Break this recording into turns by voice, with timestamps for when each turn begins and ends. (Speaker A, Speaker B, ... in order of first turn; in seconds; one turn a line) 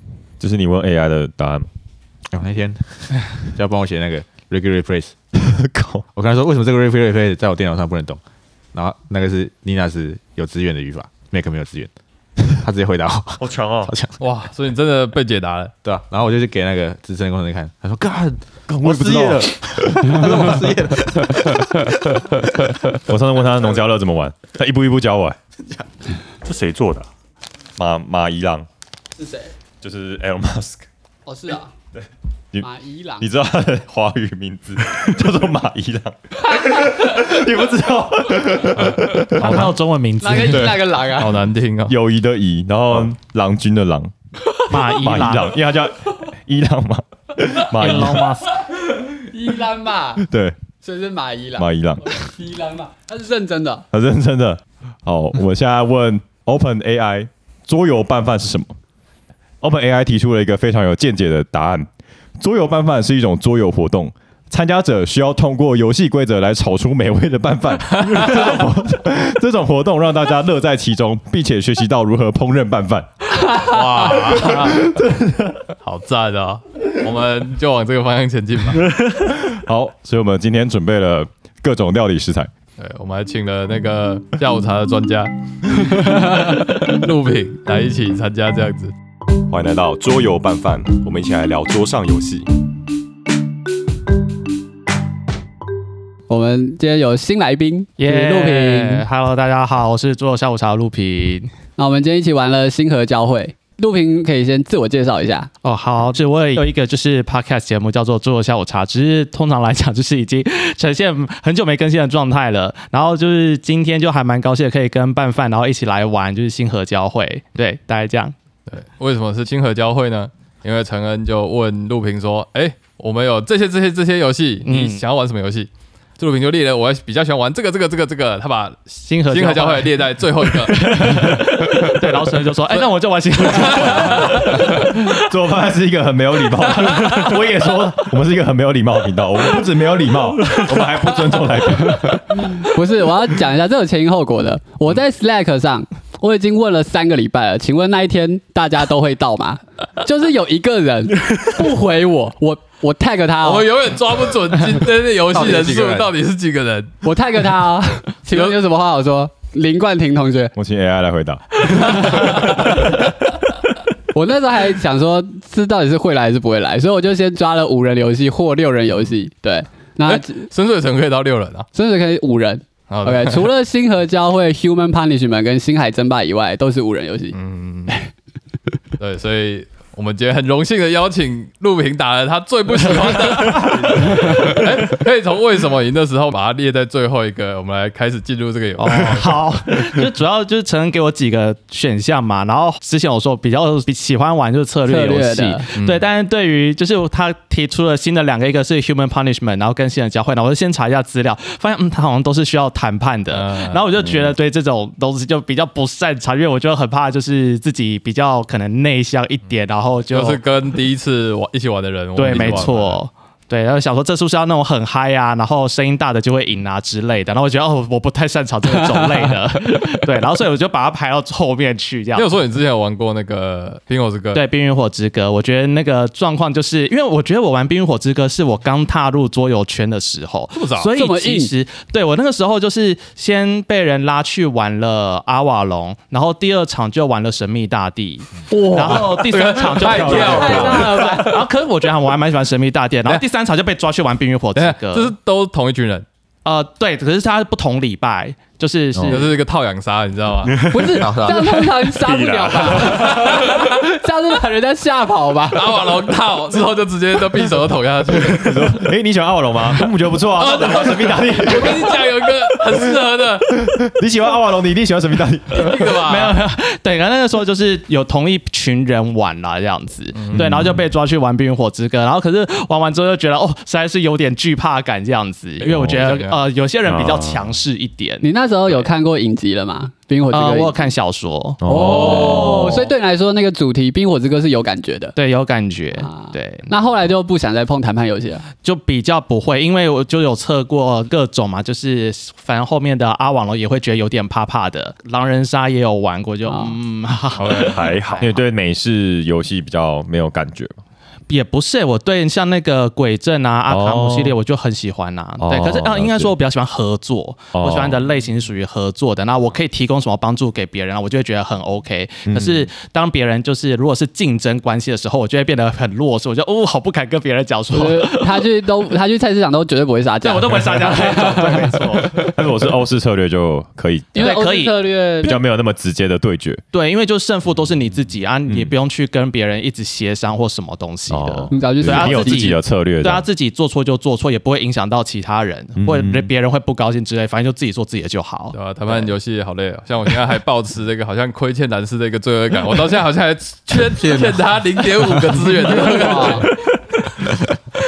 Speaker A: 0.4-1.7
Speaker B: 2.3-5.1
Speaker A: 5.4-6.0
Speaker B: 6.2-8.2
Speaker B: 8.7-11.9
Speaker B: 12.5-14.2
Speaker A: 13.4-13.9
Speaker C: 14.2-15.7
Speaker B: 15.8-22.0
Speaker A: 18.7-20.7
Speaker A: 23.0-25.4
Speaker D: 26.4-27.1
Speaker A: 27.8-28.7
Speaker E: 29.2-29.5
Speaker A: 29.8-30.9
Speaker E: 31.3-31.7
Speaker E: 32.6-33.3
Speaker A: 33.2-39.8
Speaker F: 39.4-40.8
Speaker E: 40.2-41.4
Speaker A: 40.3-40.9
Speaker C: 41.1-41.9
Speaker A: 41.9-44.1
Speaker F: 44.7-45.6
Speaker A: 44.7-48.4
Speaker F: 47.7-48.5
Speaker E: 49.2-50.3
Speaker A: 50.2-50.6
Speaker E: 50.8-53.9
Speaker A: 51.6-52.1
Speaker A: 53.9-58.8
Speaker A: 59.6-75.7
Speaker C: 73.6-74.8
Speaker C: 75.8-78.9
Speaker A: 79.4-82.5
Speaker C: 82.8-88.9
Speaker A: 89.5-92.5
Speaker E: 96.3-99.0
Speaker F: 98.0-101.5
Speaker E: 101.8-105.5
Speaker F: 105.6-118.3
Speaker C: 118.7-131.3
Speaker F: 124.7-125.0
Speaker F: 129.1-135.2
Speaker C: 133.5-134.1
Speaker A: 134.0-142.5
Speaker E: 142.4-153.7
Speaker C: 153.4-156.9
Speaker B: 155.3-156.1
Speaker E: 157.0-160.5
Speaker A: 160.6-162.2
Speaker E: 161.9-162.9
Speaker E: 164.1-170.5
Speaker C: 170.1-171.7
Speaker E: 171.7-177.4
Speaker C: 172.9-173.5
Speaker C: 177.3-178.0
Speaker C: 179.0-189.4
Speaker F: 188.8-210.4
Speaker E: 194.8-195.7
Speaker C: 195.8-196.1
Speaker C: 203.3-203.8
Speaker C: 210.1-213.0
Speaker F: 212.2-222.4
Speaker E: 218.9-219.3
Speaker C: 222.2-224.4
Speaker F: 224.3-245.1
Speaker C: 230.6-230.9
Speaker E: 231.0-231.5
Speaker E: 238.5-241.4
Speaker C: 238.9-241.3
Speaker A: 239.8-240.9
Speaker C: 244.6-246.1
Speaker F: 246.4-249.3
Speaker A: 248.9-249.3
Speaker C: 249.1-250.5
Speaker D: 250.4-251.2
Speaker E: 250.7-255.7
Speaker B: 251.0-251.6
Speaker D: 251.8-253.4
Speaker C: 252.9-253.7
Speaker C: 255.5-258.8
Speaker A: 258.3-262.0
Speaker C: 260.4-263.6
Speaker A: 263.6-265.9
Speaker C: 265.6-266.4
Speaker F: 265.8-278.9
Speaker C: 270.1-270.4
Speaker D: 270.4-270.8
Speaker C: 276.0-276.4
Speaker D: 276.9-277.6
Speaker E: 278.2-280.8
Speaker F: 280.3-282.8
Speaker A: 281.6-282.8
Speaker E: 281.6-285.2
Speaker F: 285.2-286.7
Speaker E: 286.0-288.5
Speaker F: 288.6-298.3
Speaker E: 296.5-296.8
Speaker C: 297.4-297.8
Speaker D: 297.5-298.3
Speaker A: 298.2-300.7
Speaker F: 301.3-318.4
Speaker A: 303.7-304.4
Speaker A: 305.4-306.3
Speaker A: 307.5-308.0
Speaker A: 312.3-312.7
Speaker E: 317.7-322.1
Speaker F: 320.2-322.3
Speaker A: 322.2-324.4
Speaker E: 324.1-325.4
Speaker F: 324.2-325.4
Speaker A: 325.2-326.6
Speaker F: 326.7-339.1
Speaker A: 328.5-328.7
Speaker A: 331.1-333.3
Speaker E: 331.5-332.6
Speaker A: 335.8-336.3
Speaker C: 338.5-347.4
Speaker B: 343.7-345.3
Speaker E: 345.7-346.5